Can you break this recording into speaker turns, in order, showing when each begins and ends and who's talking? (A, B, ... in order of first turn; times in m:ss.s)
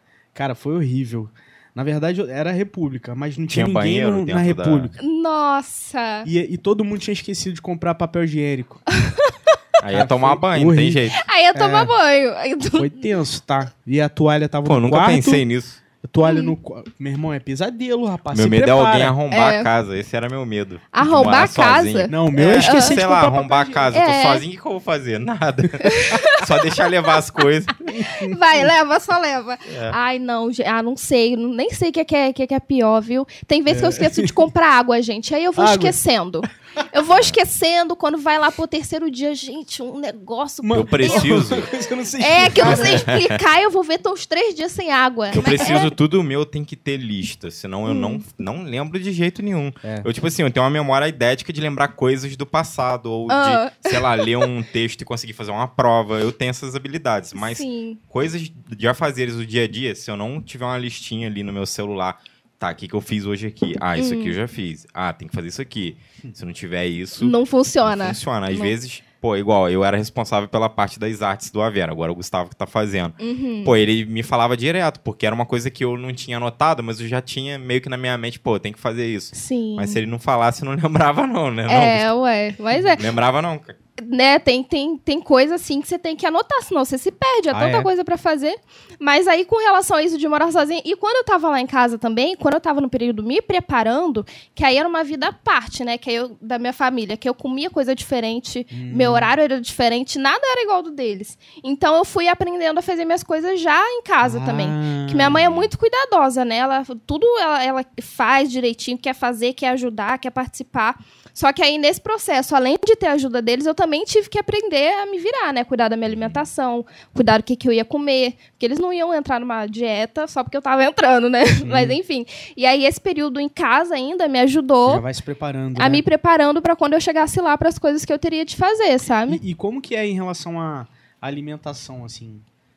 0:00.3-0:05.0 A
0:03.5-0:04.9 B
0:05.0-0:06.3 C
0:06.2-0:08.8 A
0:09.0-0:09.5 C
0:09.8-0:11.2 B
0:09.9-0:11.9 A
0:11.2-0:13.1 C
0:12.7-0:15.4 A
0:14.6-0:15.8 B
0:16.0-0:19.1 A
0:16.2-0:16.6 C
0:18.3-0:27.8 B
0:19.3-0:19.7 C
0:20.9-0:23.0 C
0:22.1-0:23.8 A
0:23.9-0:24.4 C
0:25.8-0:26.4 C
0:27.9-0:28.4 A
0:28.0-0:41.3 C
0:29.7-0:30.0 B
0:33.7-0:34.4 A
0:35.6-0:36.0 A
0:37.1-0:37.4 B
0:40.6-0:43.1 A
0:40.7-0:41.7 B
0:42.2-0:45.9 C
0:42.5-0:43.4 B
0:45.3-1:22.1 B
0:45.4-0:45.8 A
0:47.9-0:48.2 C
0:49.8-0:50.1 A
0:53.3-0:54.5 C
0:57.4-0:58.0 C
1:04.0-1:04.4 C
1:07.2-1:08.7 C
1:13.2-1:13.7 C
1:19.3-1:20.0 C
1:21.7-1:23.0 C
1:23.0-1:23.7 B
1:24.0-2:05.0 C
1:27.5-1:27.9 A
1:38.7-1:39.3 A
1:44.2-1:45.4 A
1:45.3-1:45.6 B
1:56.1-1:56.4 B
2:01.6-2:02.0 A
2:04.8-2:06.0 A
2:05.8-2:09.4 C
2:09.2-2:12.4 A